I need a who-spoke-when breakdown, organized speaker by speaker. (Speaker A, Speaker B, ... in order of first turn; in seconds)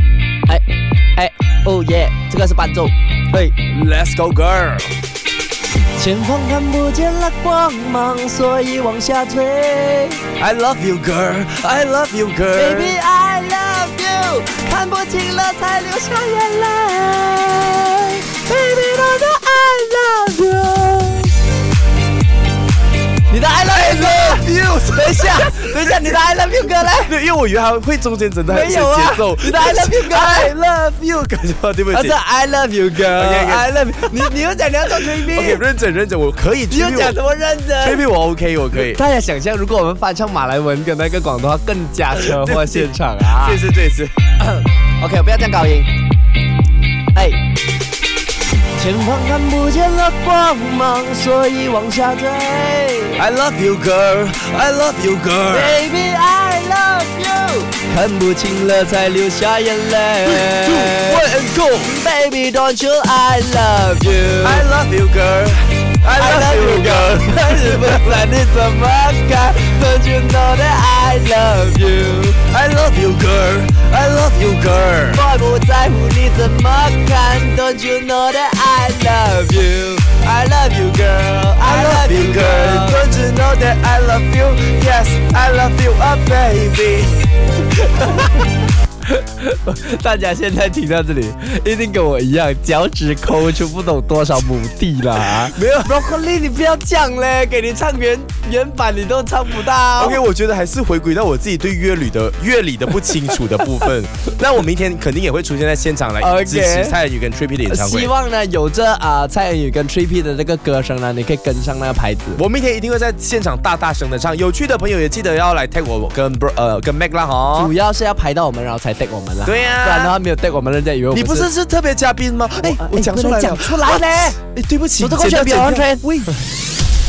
Speaker A: 1.1-3.5, 6.0-10.2, 12.5-21.4, 23.3-27.1, 28.5-30.5, 31.9-35.6, 36.7-38.0, 38.7-43.6, 44.4-45.9, 47.1-47.4, 48.7-53.2, 55.5-61.2, 61.8-64.7, 66.2-72.4, 75.1-83.1, 87.9-88.5, 89.1-100.2, 106.2-107.0, 107.7-112.4, 117.5-121.5, 122.6-124.4, 125.0-126.3
Speaker B: 3.6-5.0, 10.4-13.0, 23.7-26.0, 27.0-32.2, 33.1-34.3, 34.9-37.2, 37.8-39.0, 42.1-44.1, 53.2-55.8, 60.2-61.9, 64.4-68.2, 72.5-75.2, 81.6-87.2, 95.5-95.9, 100.0-108.1, 112.3-117.7, 119.4-120.1, 121.1-126.3